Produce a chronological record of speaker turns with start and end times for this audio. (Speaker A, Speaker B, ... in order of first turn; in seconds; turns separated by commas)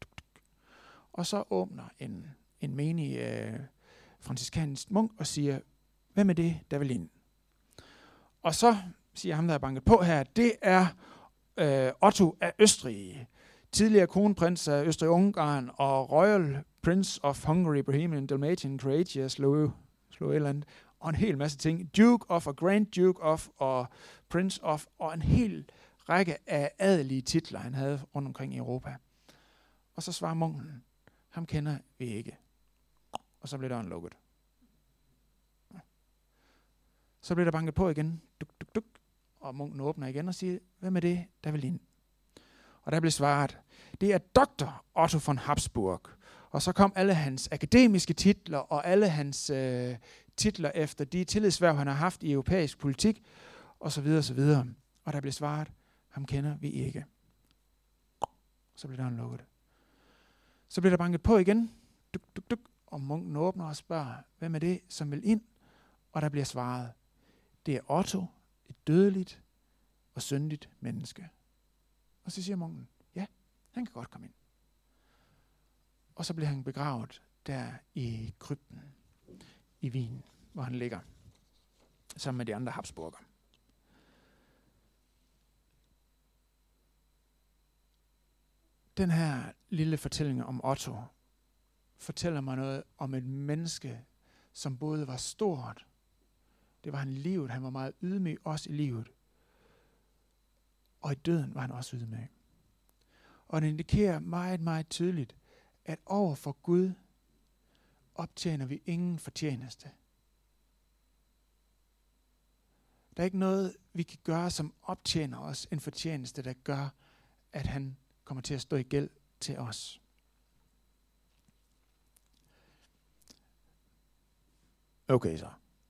Speaker A: 1.1-7.1, Speaker A: 8.4-11.0, Speaker A: 11.5-29.0, Speaker A: 29.9-32.4, Speaker A: 33.4-34.2, Speaker A: 37.2-41.8, Speaker A: 42.8-57.1, Speaker A: 58.7-59.5, Speaker A: 60.7-65.5, Speaker A: 66.1-67.0, Speaker A: 67.6-69.4, Speaker A: 70.1-71.3, Speaker A: 72.2-74.3, Speaker A: 76.2-78.9, Speaker A: 79.8-81.0, Speaker A: 82.2-83.2, Speaker A: 89.0-91.1, Speaker A: 92.0-95.8, Speaker A: 96.8-99.1, Speaker A: 101.0-102.3, Speaker A: 103.5-107.0, Speaker A: 108.1-109.9, Speaker A: 113.2-116.9, Speaker A: 117.5-120.0, Speaker A: 125.1-125.6